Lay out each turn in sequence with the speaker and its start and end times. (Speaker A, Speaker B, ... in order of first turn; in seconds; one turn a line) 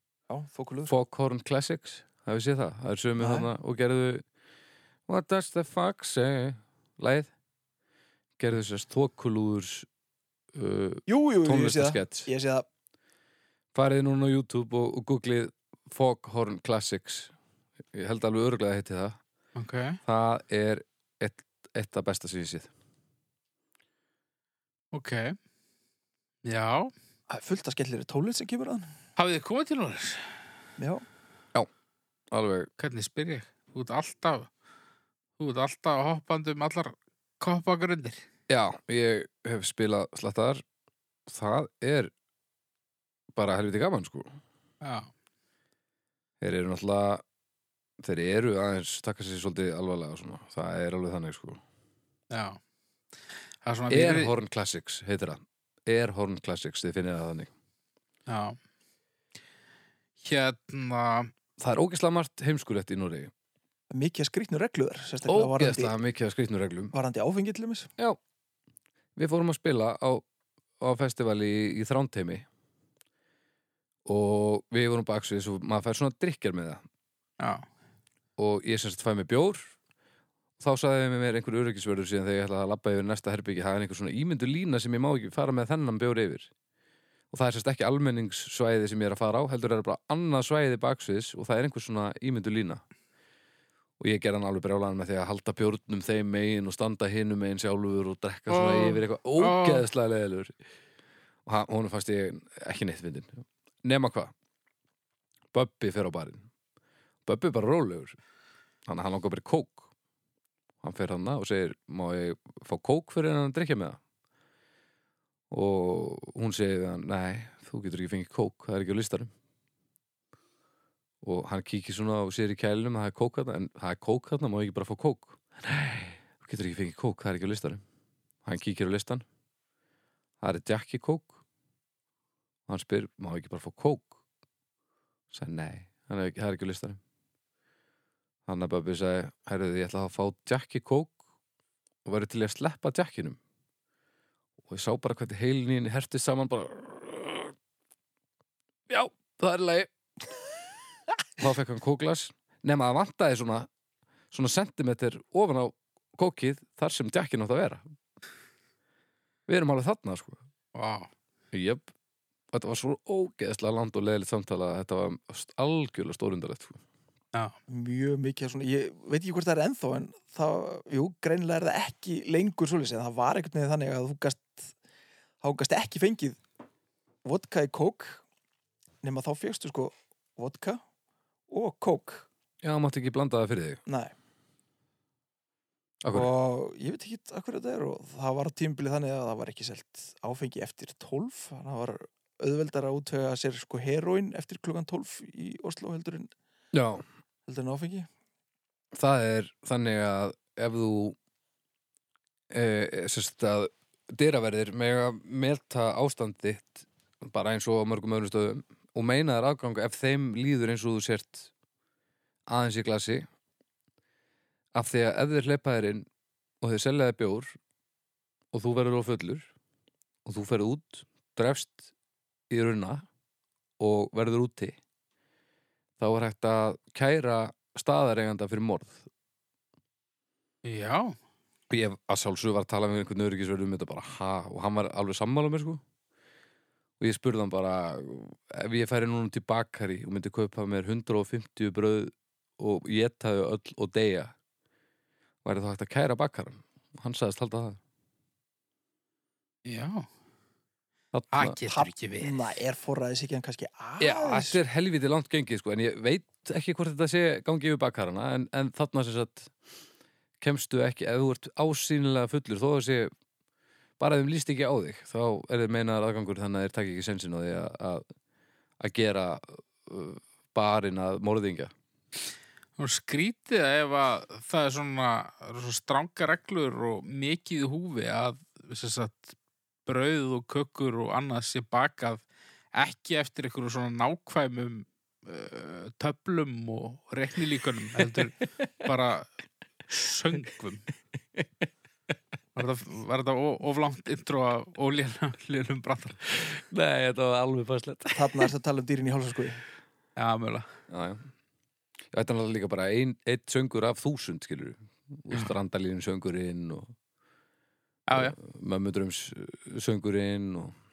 Speaker A: 0.3-0.9
Speaker B: 0.9-4.2
Speaker A: 3.2-3.5
Speaker B: 5.1-7.3
Speaker B: 8.4-9.9
Speaker B: 10.5-12.3
Speaker A: 11.1-12.7
Speaker B: 13.7-17.3
Speaker B: 17.9-19.2
Speaker C: 19.6-20.0
Speaker B: 20.1-22.7
Speaker C: 24.9-25.4
Speaker C: 26.4-26.9
Speaker A: 27.3-28.9
Speaker C: 29.2-30.3
Speaker A: 30.8-31.1
Speaker B: 32.3-32.7
Speaker C: 32.8-34.5
Speaker C: 35.4-38.2
Speaker B: 38.5-40.6
Speaker B: 41.3-42.1
Speaker B: 43.3-44.4
Speaker C: 44.8-45.1
Speaker B: 46.4-47.2
Speaker B: 48.0-51.6
Speaker C: 52.3-52.6
Speaker C: 53.6-54.3
Speaker B: 53.9-57.5
Speaker C: 58.3-58.6
Speaker C: 60.2-61.3
Speaker B: 61.6-63.3
Speaker A: 63.9-66.0
Speaker B: 65.3-66.9
Speaker A: 66.9-67.9
Speaker B: 69.2-70.2
Speaker B: 70.8-72.5
Speaker B: 74.0-76.8
Speaker C: 77.4-77.7
Speaker B: 78.4-79.7
Speaker B: 80.6-86.5
Speaker B: 87.3-92.8
Speaker B: 94.0-100.5
Speaker C: 98.5-99.8
Speaker B: 101.5-104.3
Speaker B: 105.5-106.5
Speaker B: 107.3-108.2
Speaker B: 108.9-109.9
Speaker B: 110.8-114.0
Speaker B: 115.5-119.3
Speaker B: 121.2-127.8
Speaker B: 128.4-129.2
Speaker B: 130.4-131.4
Speaker B: 132.7-134.1
Speaker B: 135.3-137.0
Speaker B: 138.4-141.2
Speaker B: 142.1-143.4
Speaker B: 144.7-147.5
Speaker B: 148.9-149.9
Speaker B: 151.4-153.7
Speaker B: 154.3-157.8
Speaker B: 159.5-160.4
Speaker C: 160.7-161.1
Speaker B: 161.5-161.9
Speaker B: 162.5-166.8
Speaker A: 167.7-174.7
Speaker A: 175.4-176.4
Speaker A: 177.2-178.2
Speaker A: 179.0-180.8
Speaker A: 181.5-182.3
Speaker B: 182.6-183.8
Speaker A: 183.9-184.1
Speaker B: 186.0-186.3
Speaker A: 186.1-196.3
Speaker B: 196.7-197.0
Speaker A: 197.5-198.1
Speaker B: 198.9-201.2
Speaker B: 202.5-211.5
Speaker B: 212.5-213.2
Speaker B: 214.7-216.1
Speaker B: 216.6-217.6
Speaker B: 218.5-219.5
Speaker B: 220.2-221.9
Speaker B: 222.5-223.1
Speaker B: 223.8-224.8
Speaker B: 226.0-229.1
Speaker C: 230.6-231.2
Speaker B: 231.7-235.8
Speaker B: 237.0-244.3
Speaker B: 245.4-247.8
Speaker C: 249.6-250.1
Speaker B: 251.1-251.6
Speaker C: 251.3-252.6
Speaker A: 251.7-254.6
Speaker B: 254.0-259.5
Speaker B: 260.4-263.1
Speaker B: 264.0-268.1
Speaker B: 268.8-271.7
Speaker C: 272.8-279.3
Speaker C: 279.9-282.2
Speaker C: 282.7-289.3
Speaker B: 288.0-288.9
Speaker C: 289.9-290.9
Speaker C: 292.6-296.3
Speaker B: 296.4-298.5
Speaker A: 298.1-299.6
Speaker C: 300.1-300.7
Speaker B: 300.9-301.3
Speaker B: 302.1-306.9
Speaker C: 308.1-308.4
Speaker B: 308.1-310.7